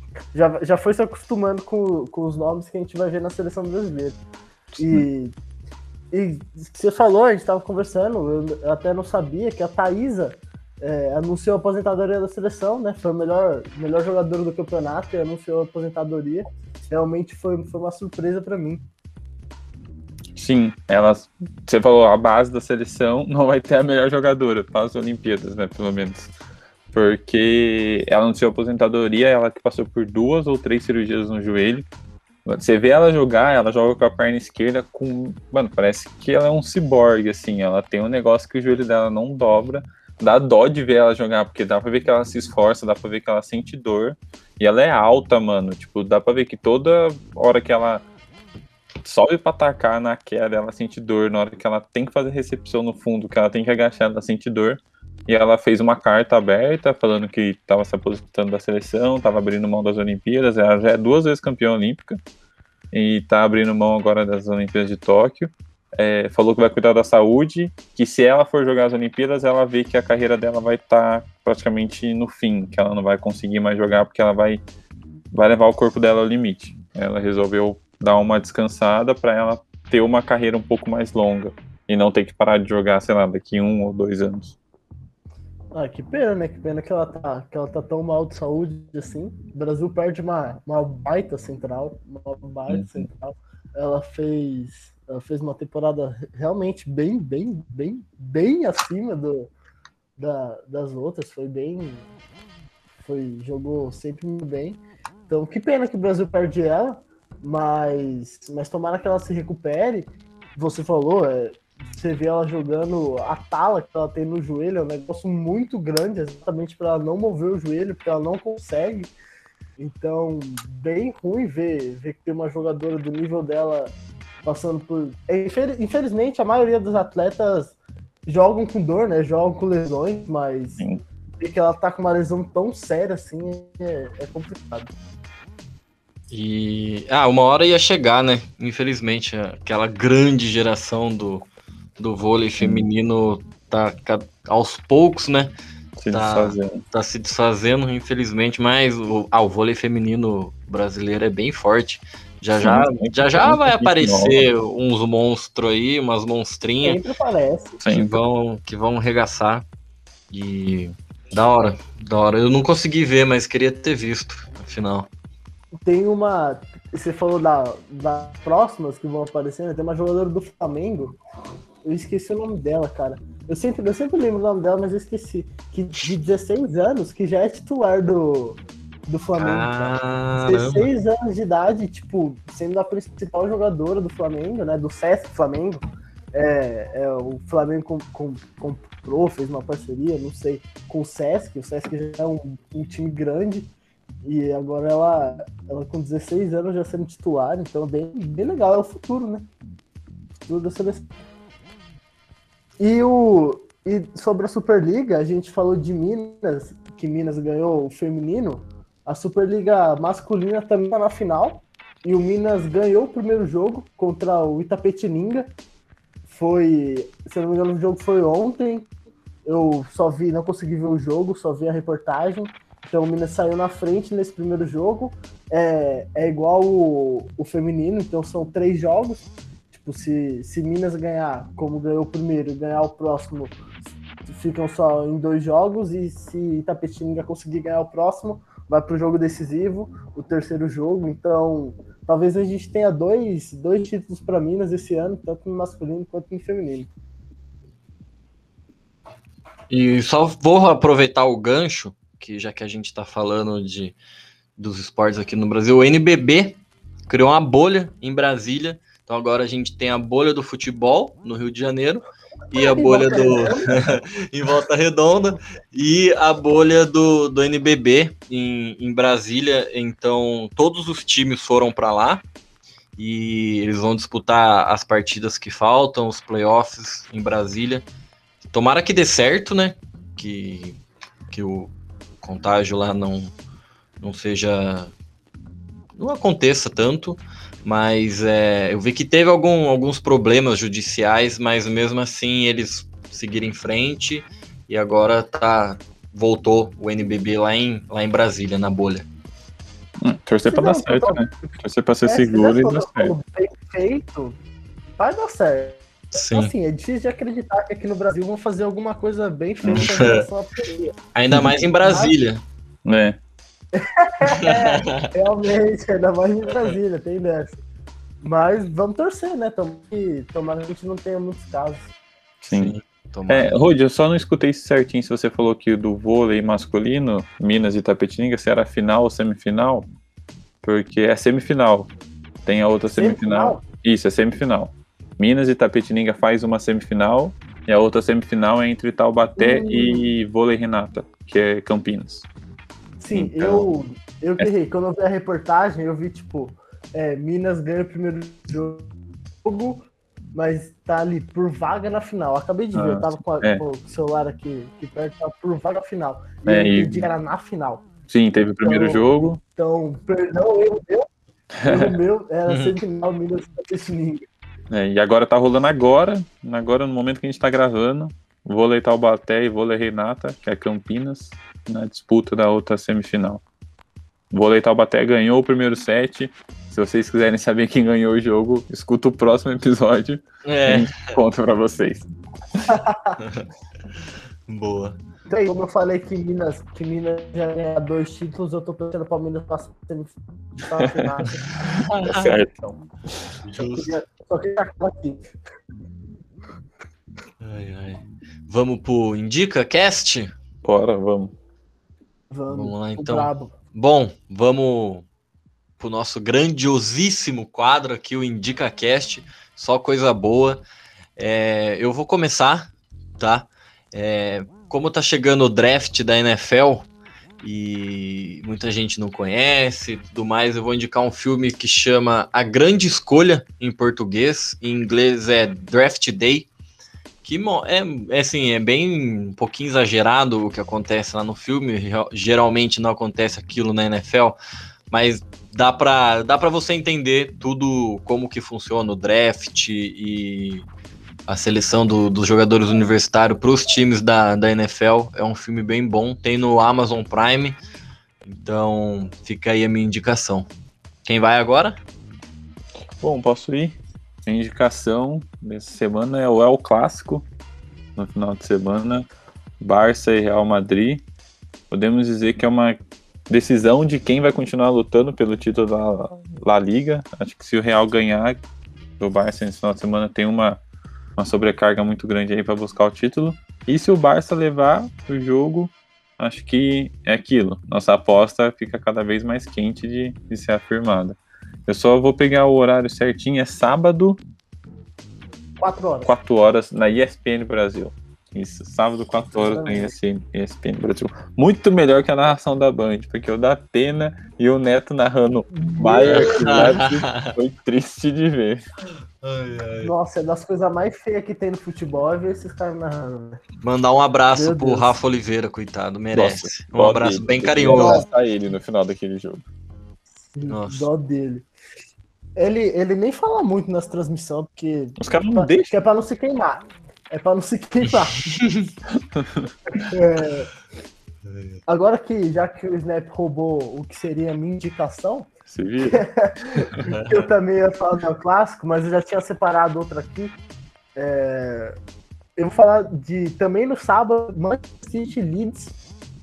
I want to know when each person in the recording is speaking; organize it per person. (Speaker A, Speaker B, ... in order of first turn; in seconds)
Speaker A: 0.3-4.2, 4.8-5.3, 6.1-18.8, 85.7-99.5, 100.2-102.0, 103.0-119.1, 119.8-130.8, 131.4-134.9, 156.8-157.8, 165.8-171.2, 171.8-193.7, 194.2-199.5, 200.4-201.1, 202.8-215.5, 216.2-218.9, 219.4-233.6, 234.2-246.9, 262.5-263.8, 300.5-304.4, 305.0-310.9, 311.8-312.1, 313.7-317.6, 318.2-321.9, 332.9-333.6, 339.4-340.1, 343.0-348.9, 349.4-357.8, 358.6-361.1, 361.6-364.2, 382.7-383.2, 385.3-391.4, 392.0-392.8, 393.6-395.2, 402.3-403.5, 485.6-486.1, 489.3-489.9, 495.5-496.8, 499.8-503.4, 504.3-504.9, 507.7-508.1, 510.3-511.5, 512.4-518.3, 519.8-520.5, 521.7-525.3, 525.9-530.4, 530.9-531.7, 532.4-535.8
Speaker B: 4.8-5.0, 20.3-26.3, 26.9-31.9, 32.5-48.0, 49.0-62.2, 62.9-74.6, 75.3-84.5, 92.7-93.0, 142.6-142.9, 146.0-146.8, 152.6-154.4, 157.8-158.2, 300.0-303.1, 309.6-309.9, 312.8-313.2, 322.4-322.7, 323.3-329.9, 330.6-331.9, 332.4-342.3, 343.1-343.6, 352.7-353.6, 356.4-357.1, 358.1-359.4, 361.6-361.9, 364.7-373.4, 374.3-382.6, 390.8-392.6, 400.6-401.3, 453.0-457.2, 457.9-459.1, 459.6-461.1, 461.7-468.4, 469.0-470.6, 471.2-484.2, 486.1-498.6, 506.1-509.4, 515.0-515.7, 519.1-519.5, 525.5-526.0
Speaker C: 136.3-141.4, 142.0-145.5, 146.1-157.0, 157.9-159.7, 160.3-165.1, 179.4-180.9, 249.7-254.0, 254.6-272.2, 273.0-277.8, 278.5-280.8, 281.3-283.3, 284.0-284.9, 285.9-299.1, 306.1-306.5, 309.7-310.2, 311.1-312.4, 314.3-315.1, 322.5-323.5, 362.5-362.8, 380.4-381.2, 383.2-383.4, 384.5-385.0, 391.9-392.3, 393.4-393.9, 397.4-400.3, 402.5-405.1, 405.8-410.6, 411.2-416.9, 417.4-426.5, 427.2-434.4, 434.9-440.7, 441.3-447.6, 448.2-450.5, 451.1-451.8, 496.1-497.3, 499.2-499.9, 503.6-508.0, 510.5-510.9, 517.9-518.7, 521.3-521.6, 526.8-527.2